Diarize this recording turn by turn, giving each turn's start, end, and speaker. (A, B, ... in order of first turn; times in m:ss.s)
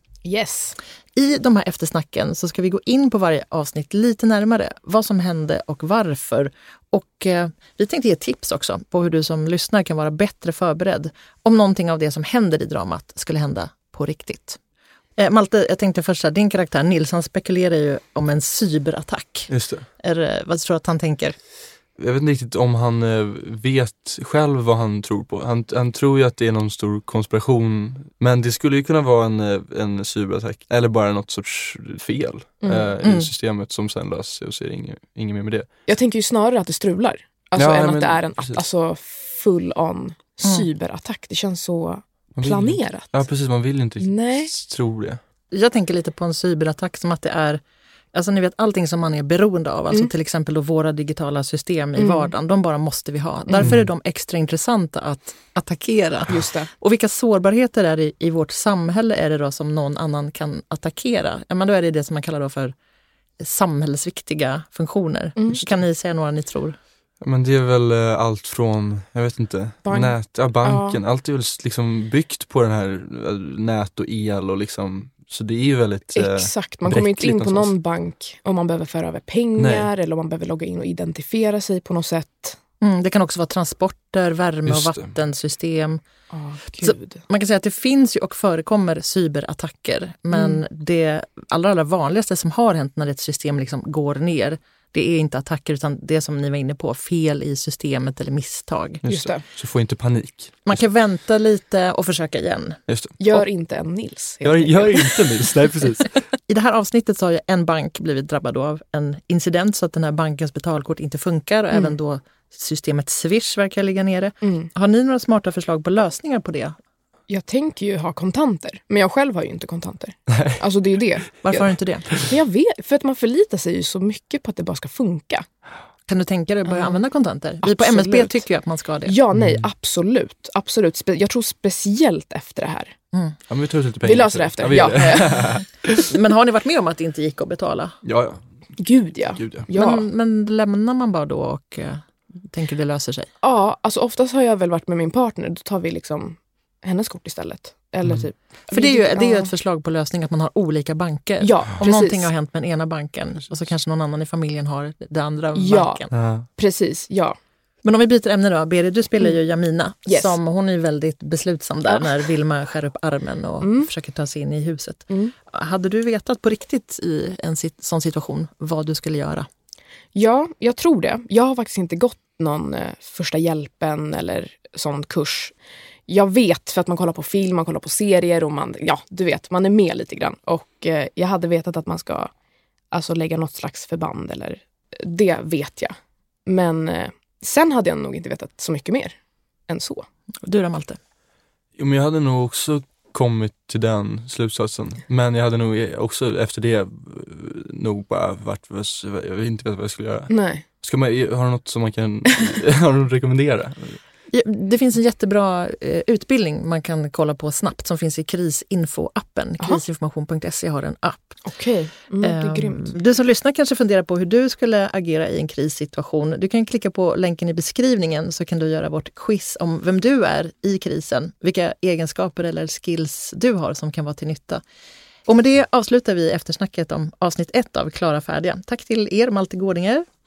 0:00.2-0:00.8 A
0:01.2-0:14.6 B
0:15.2-0:21.4 B
0:19.5-0:19.9 C
0:22.0-0:35.7 C
0:32.6-0:33.0 A
0:33.0-0:33.3 B
0:35.9-0:43.2 A
0:37.6-0:38.6 C
0:42.4-0:45.2 C
0:44.0-0:44.5 A
0:45.5-0:47.6 B
0:48.1-1:02.8 B
0:52.0-0:52.3 A
0:56.3-0:56.7 A
1:03.4-1:06.8 B
1:05.4-1:05.6 A
1:07.2-1:17.7 C
1:09.9-1:11.0 A
1:16.1-1:22.6 A
1:19.6-1:19.9 C
1:22.8-1:26.0 B
1:24.7-1:25.1 C
1:26.3-1:27.2 A
1:26.8-1:39.0 B
1:30.3-1:30.6 A
1:39.0-1:40.8 C
1:39.1-1:39.4 A
1:40.7-1:42.8 B
1:42.9-1:43.4 C
1:43.2-1:45.5 A
1:44.4-1:46.2 C
1:46.5-1:56.8 B
1:54.4-1:54.7 A
1:57.3-2:05.5 A
2:00.3-2:00.6 C
2:01.4-2:02.2 B
2:06.1-2:09.2 B
2:06.7-2:07.0 A
2:07.6-2:08.5 A
2:09.0-2:12.9 A
2:13.5-2:16.1 C
2:14.0-2:15.5 A
2:16.1-2:18.0 B
2:18.0-2:18.4 C
2:18.8-2:20.1 A
2:19.4-2:19.7 C
2:19.8-2:23.3 B
2:23.4-2:29.5 A
2:28.7-2:36.1 B
2:31.4-2:32.3 A
2:35.6-2:36.0 A
2:36.1-2:36.5 C
2:36.6-2:37.4 A
2:37.8-2:49.5 B
2:40.1-2:40.4 A
2:43.6-2:43.9 A
2:45.1-2:45.3 A
2:50.2-2:55.6 A
2:56.1-3:02.3 A
3:02.9-3:05.9 A
3:06.5-3:09.2 A
3:09.7-3:10.1 A
3:10.4-3:11.0 B
3:11.8-3:24.0 C
3:20.3-3:20.6 A
3:24.3-3:31.4 B
3:31.4-3:33.0 A
3:32.2-3:44.6 B
3:45.3-3:50.0 B